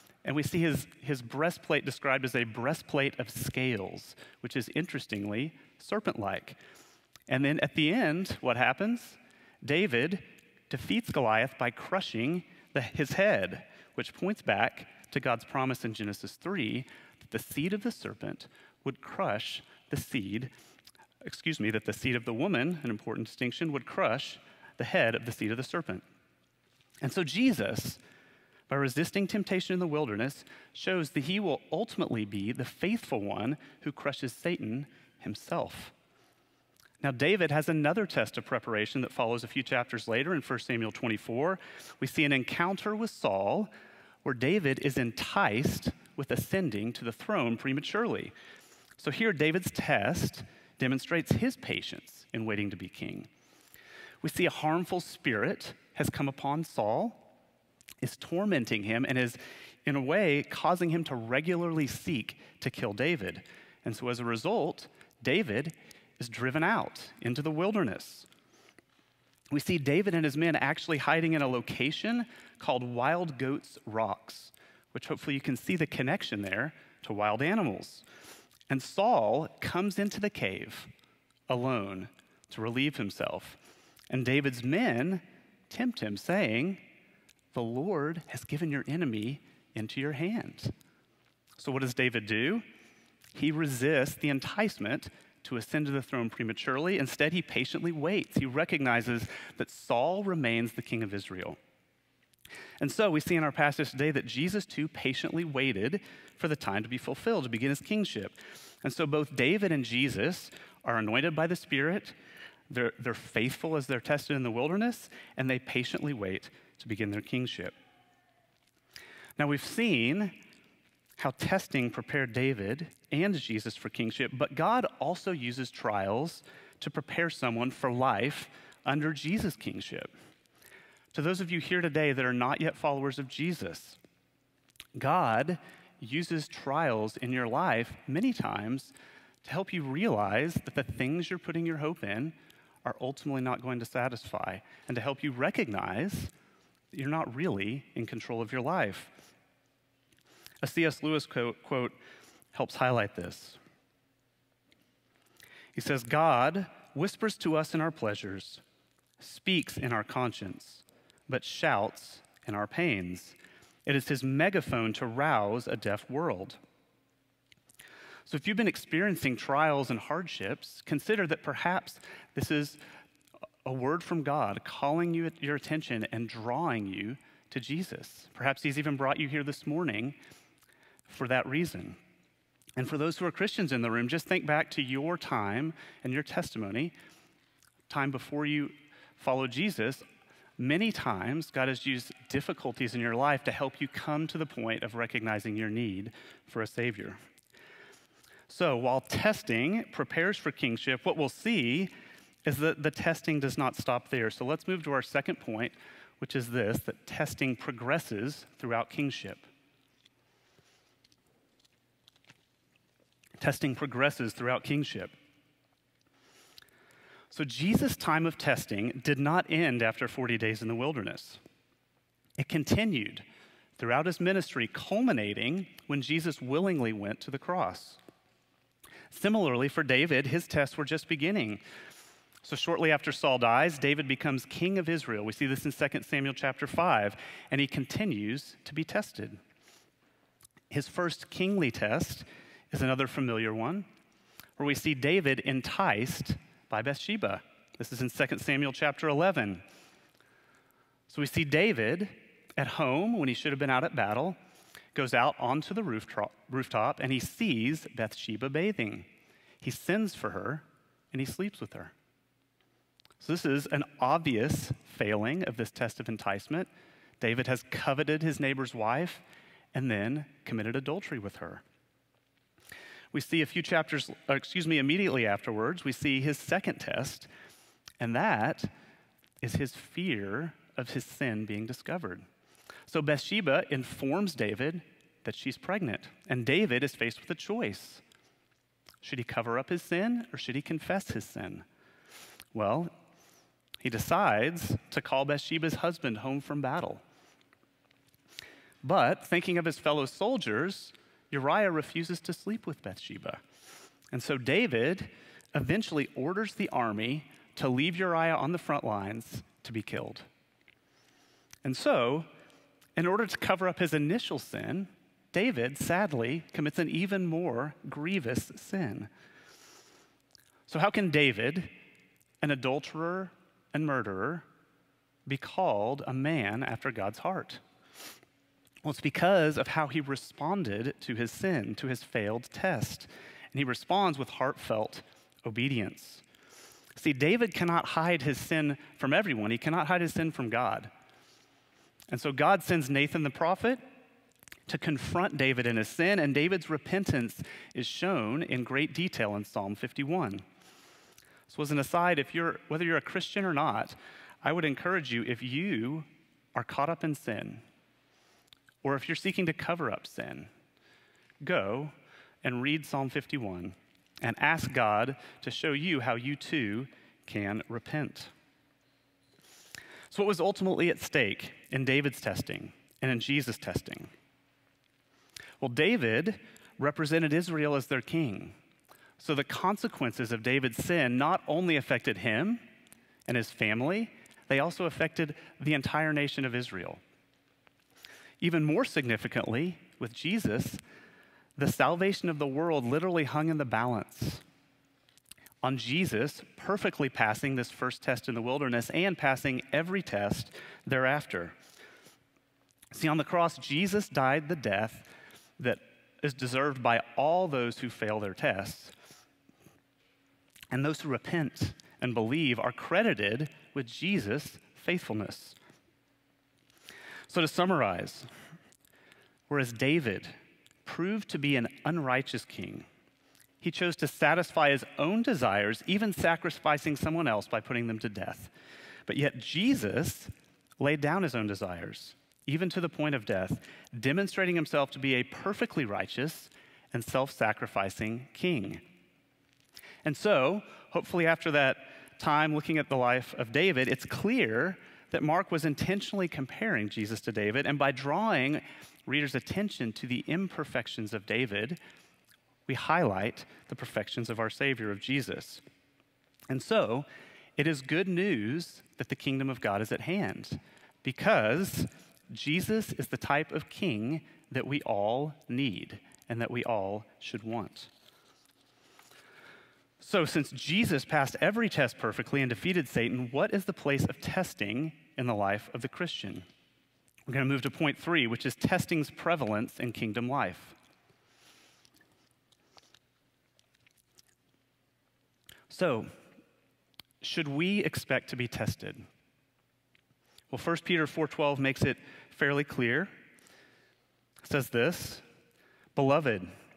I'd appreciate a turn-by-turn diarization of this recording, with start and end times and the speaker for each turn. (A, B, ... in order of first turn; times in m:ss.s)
0:00.2-0:06.6 A
0:07.3-0:20.5 A
0:21.2-0:26.0 A
0:27.0-0:28.0 A
0:28.7-0:35.9 A
0:37.0-0:43.7 A
0:44.2-0:48.3 A
0:49.0-0:53.3 A
0:54.2-0:57.2 A
0:58.0-1:08.3 A
1:09.5-1:18.0 A
1:18.7-1:20.9 A
1:21.5-1:23.6 A
1:24.1-1:26.8 A
1:27.5-1:30.7 A
1:31.6-1:32.6 A
1:33.3-1:41.6 A
1:42.8-1:52.1 A
1:52.7-1:57.7 A
1:59.4-2:00.4 A
2:01.2-2:10.1 A
2:11.1-2:14.0 A
2:14.9-2:26.3 A
2:26.9-2:29.1 A
2:30.6-2:32.0 A
2:32.5-2:33.6 A
2:35.7-2:38.6 A
2:39.2-2:46.6 A
2:48.2-2:52.8 A
2:53.6-3:00.2 A
3:01.1-3:02.0 A
3:02.8-3:06.9 A
3:07.9-3:10.0 A
3:10.6-3:17.2 A
3:18.5-3:21.9 A
3:22.4-3:29.4 A
3:33.4-3:35.1 A
3:37.3-3:41.4 A
3:42.4-3:43.2 A
3:43.8-3:48.0 A
3:49.1-3:51.6 A
3:52.4-3:59.4 A
4:00.7-4:03.8 A
4:04.6-4:09.6 A
4:11.1-4:14.4 A
4:14.9-4:19.1 A
4:19.6-4:21.9 A
4:23.2-4:26.7 A
4:27.2-4:29.2 A
4:29.7-4:31.6 A
4:33.1-4:37.3 A
4:38.0-4:38.7 A
4:39.4-4:42.2 A
4:42.9-4:48.0 A
4:49.0-4:51.6 A
4:52.5-4:52.9 A
4:53.8-4:57.0 A
4:58.8-5:03.4 A
5:04.1-5:10.2 A
5:11.6-5:12.3 A
5:13.0-5:19.1 A
5:20.7-5:21.7 A
5:22.4-5:24.4 A
5:25.2-5:27.6 A
5:28.8-5:36.2 A
5:37.0-5:40.9 A
5:42.1-5:43.8 A
5:44.7-5:50.4 A
5:51.5-5:57.6 A
5:58.8-6:00.5 A
6:01.4-6:08.3 A
6:10.1-6:14.1 A
6:15.6-6:18.5 A
6:19.2-6:22.6 A
6:23.2-6:27.0 A
6:28.4-6:30.8 A
6:31.6-6:34.4 A
6:35.6-6:41.5 A
6:42.9-6:48.9 A
6:50.7-6:55.6 A
6:57.3-6:58.3 A
6:59.5-7:00.3 A
7:00.8-7:02.8 A
7:03.6-7:08.5 A
7:09.1-7:18.8 A
7:20.0-7:31.8 A
7:32.7-7:35.6 A
7:36.5-7:47.9 A
7:50.0-7:56.4 A
7:57.3-8:00.7 A
8:05.7-8:06.1 A
8:07.2-8:09.0 A
8:10.5-8:13.1 A
8:14.4-8:15.2 A
8:15.9-8:16.5 A